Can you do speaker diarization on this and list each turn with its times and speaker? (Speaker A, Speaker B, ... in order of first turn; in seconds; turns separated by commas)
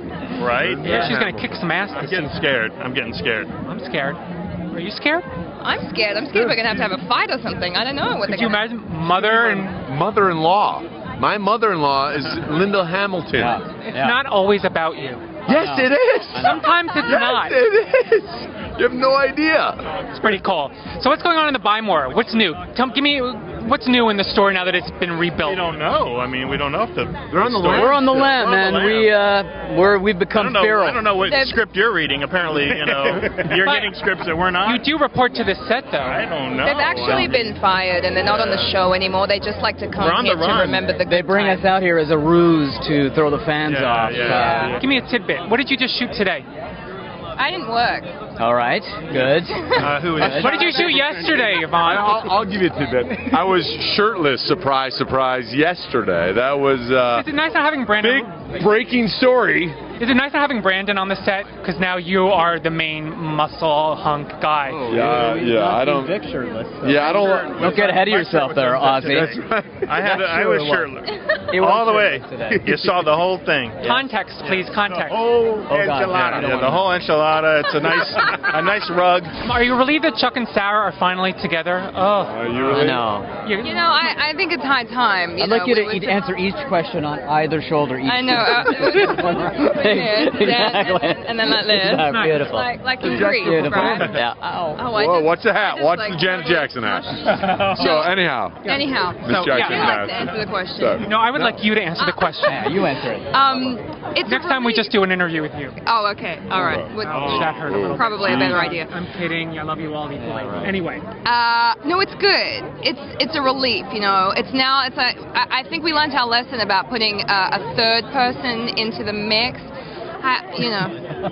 Speaker A: 0.3-0.9, Speaker B: 0.5-1.6, Speaker C: 0.8-2.3, Speaker A: 1.9-3.5, Speaker C: 3.6-4.2, Speaker C: 4.7-5.2, Speaker D: 5.6-8.7, Speaker C: 8.2-9.7, Speaker B: 9.7-13.6, Speaker E: 13.4-14.2, Speaker C: 13.9-15.2, Speaker E: 15.4-16.6, Speaker B: 15.5-16.5, Speaker C: 16.3-17.6, Speaker B: 17.1-19.8, Speaker C: 20.1-25.7, Speaker A: 25.4-29.1, Speaker B: 27.3-28.3, Speaker E: 27.7-31.1, Speaker A: 30.3-34.8, Speaker D: 31.2-31.6, Speaker B: 32.9-33.5, Speaker C: 33.6-34.0, Speaker C: 34.6-36.2, Speaker A: 36.0-37.5, Speaker D: 36.5-41.7, Speaker E: 37.0-37.3, Speaker A: 38.3-38.7, Speaker A: 40.0-40.7, Speaker E: 41.0-44.9, Speaker A: 43.7-44.9, Speaker C: 44.7-46.5, Speaker D: 47.4-48.1, Speaker E: 48.4-50.6, Speaker D: 49.5-49.9, Speaker A: 49.8-51.5, Speaker B: 49.8-50.8, Speaker C: 50.1-52.4, Speaker B: 51.6-57.3, Speaker C: 57.1-58.4, Speaker B: 58.0-59.8, Speaker C: 60.0-64.9, Speaker E: 64.7-70.9, Speaker B: 64.8-66.1, Speaker B: 66.8-70.3, Speaker A: 67.4-73.8, Speaker E: 71.5-73.1, Speaker E: 73.8-74.1, Speaker C: 73.8-75.3, Speaker A: 74.4-79.4, Speaker E: 75.7-77.0, Speaker B: 76.3-76.8, Speaker D: 78.1-78.5, Speaker B: 78.1-78.5, Speaker C: 79.4-84.1, Speaker B: 82.3-83.1, Speaker E: 82.7-83.3, Speaker D: 83.6-86.2, Speaker E: 85.4-94.9, Speaker D: 88.0-101.1, Speaker C: 92.0-92.5, Speaker B: 93.0-94.2, Speaker B: 94.9-98.6, Speaker C: 97.6-98.1, Speaker C: 98.6-100.1, Speaker B: 99.2-101.6, Speaker C: 101.0-102.9, Speaker D: 102.0-105.0, Speaker E: 102.5-103.8, Speaker C: 104.2-105.7, Speaker D: 105.8-108.9, Speaker B: 106.5-108.7, Speaker C: 107.0-111.0, Speaker A: 107.1-107.5, Speaker E: 110.2-110.6, Speaker D: 111.2-121.0